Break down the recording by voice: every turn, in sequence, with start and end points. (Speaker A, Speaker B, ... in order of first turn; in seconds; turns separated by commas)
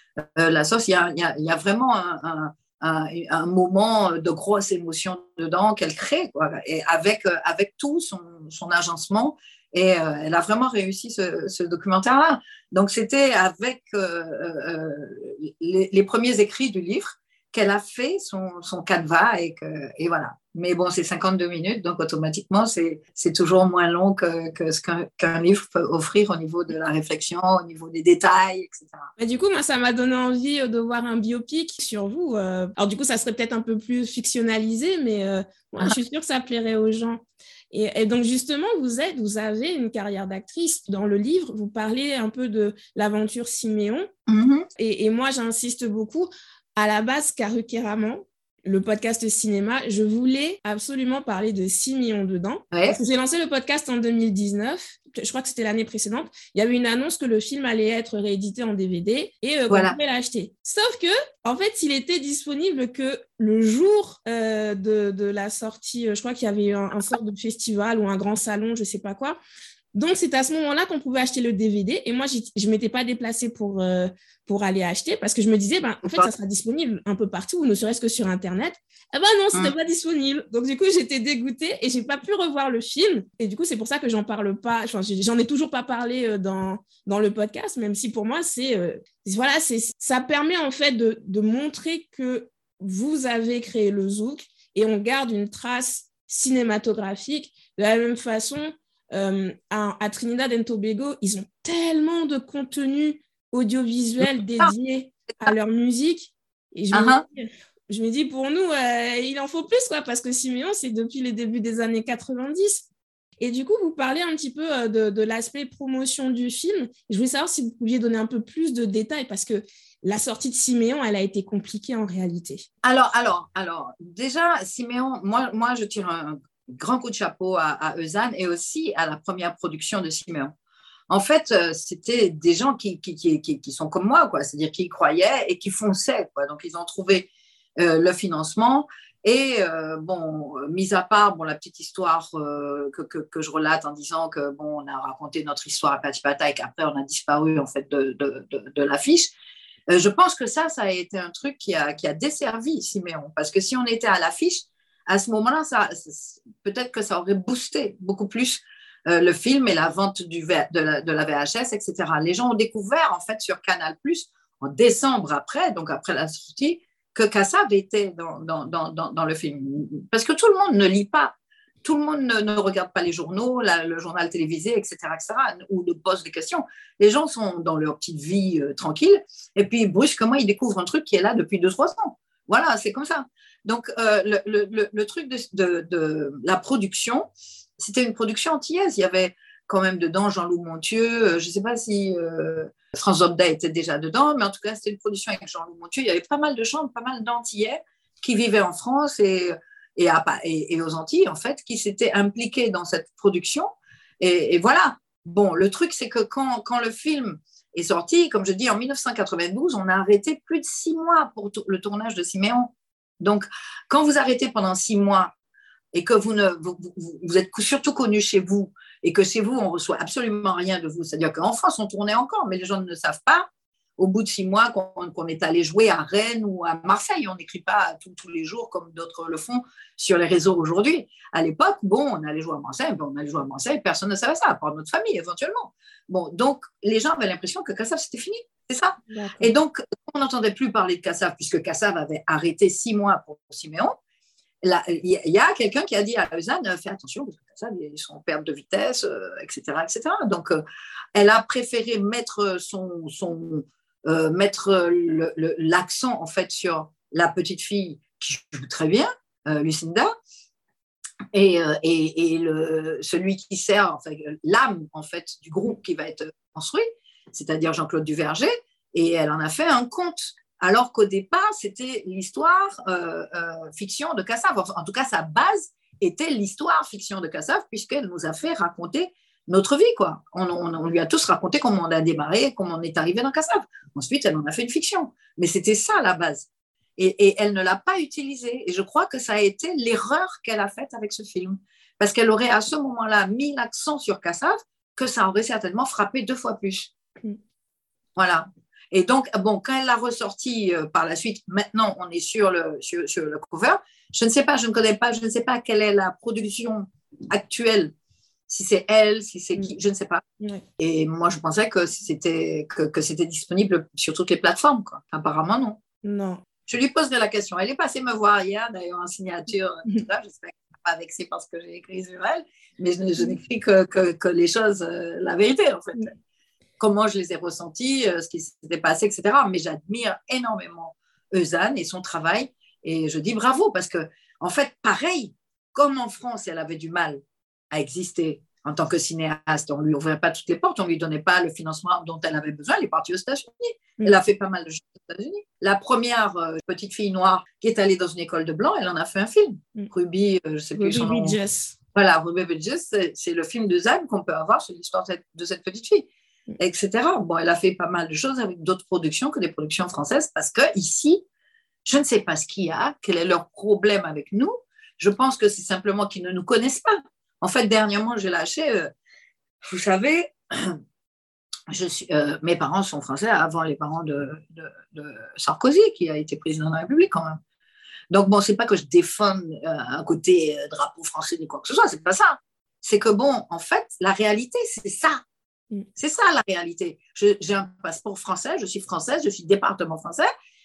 Speaker A: 0.4-29.1, Speaker B: 29.2-44.1, Speaker A: 44.3-44.7, Speaker B: 44.8-69.4, Speaker A: 52.7-53.0, Speaker A: 59.7-60.0, Speaker B: 70.0-112.8, Speaker A: 104.2-104.7, Speaker A: 106.9-107.2, Speaker B: 113.4-122.7, Speaker A: 122.8-130.6, Speaker A: 131.1-149.3, Speaker A: 149.9-203.7, Speaker A: 204.2-215.3, Speaker A: 215.9-244.0, Speaker B: 239.1-239.5, Speaker A: 244.6-250.6, Speaker A: 251.2-260.1, Speaker A: 261.3-296.9, Speaker A: 298.2-307.9, Speaker A: 308.5-310.2, Speaker A: 310.8-315.8, Speaker B: 316.0-316.4, Speaker A: 316.7-326.1, Speaker A: 326.8-351.4, Speaker B: 350.8-351.8, Speaker A: 351.9-361.2, Speaker A: 361.9-368.9, Speaker A: 369.6-370.8, Speaker A: 371.7-377.4, Speaker A: 378.1-385.2, Speaker A: 386.0-390.3